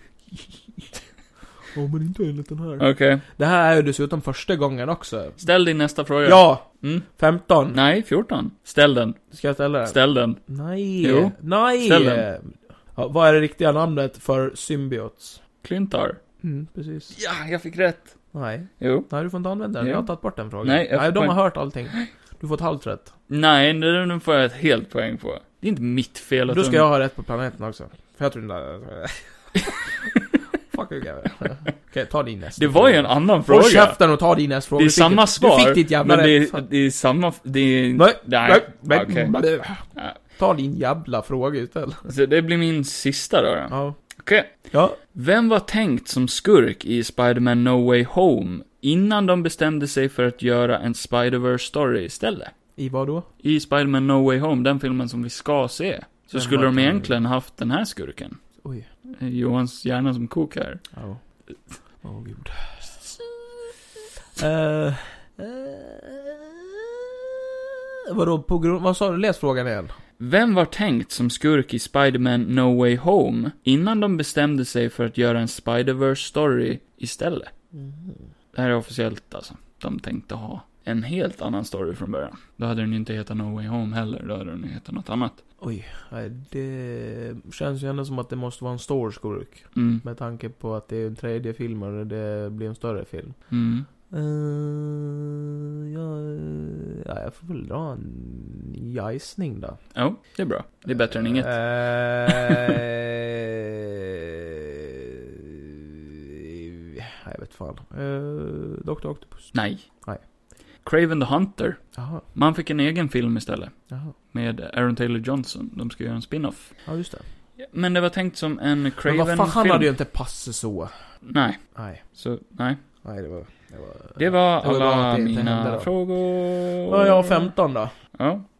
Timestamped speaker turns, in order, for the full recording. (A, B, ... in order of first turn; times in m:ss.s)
0:01.7-0:05.4 A
0:02.8-0:03.2 B
0:05.4-0:07.1 B
0:06.2-0:07.8 A
0:07.7-0:09.2 B
0:09.3-0:15.4 A
0:09.8-0:10.4 B
0:11.0-0:12.2 B
0:15.6-0:16.2 B
0:16.4-0:17.1 A
0:17.1-0:18.2 B
0:18.3-0:23.1 A
0:18.8-0:19.1 B
0:19.8-0:20.1 B
0:20.6-0:22.1 B
0:23.3-0:26.9 B
0:26.5-0:29.8 A
0:29.6-0:30.4 B
0:30.7-0:36.6 A
0:32.6-0:34.0 B
0:34.8-0:39.3 B
0:38.0-0:39.8 A
0:40.4-0:42.1 A
0:42.1-0:44.6 B
0:43.7-0:44.0 A
0:44.7-0:45.0 A
0:45.1-0:52.5 B
0:52.8-0:53.3 A
0:53.4-0:58.4 B
0:56.3-0:57.2 A
0:59.2-1:00.8 B
1:00.9-1:01.2 A
1:02.0-1:03.4 A
1:04.3-1:09.9 A
1:10.2-1:17.5 B
1:17.7-1:18.3 A
1:18.5-1:25.4 B
1:25.6-1:33.4 A
1:29.7-1:30.0 B
1:33.5-1:33.9 B
1:34.1-1:39.8 A
1:39.9-1:41.6 B
1:40.9-1:50.2 A
1:42.3-1:42.7 B
1:49.5-1:49.8 B
1:50.8-1:53.8 B
1:51.9-1:52.2 A
1:54.3-1:56.7 B
1:56.8-1:57.2 A
1:57.6-1:59.9 B
1:59.0-2:00.9 A
2:01.2-2:01.6 B
2:01.7-2:02.0 A
2:02.1-2:02.8 B
2:03.0-2:05.9 A
2:04.2-2:07.5 B
2:06.9-2:07.9 A
2:08.1-2:08.4 B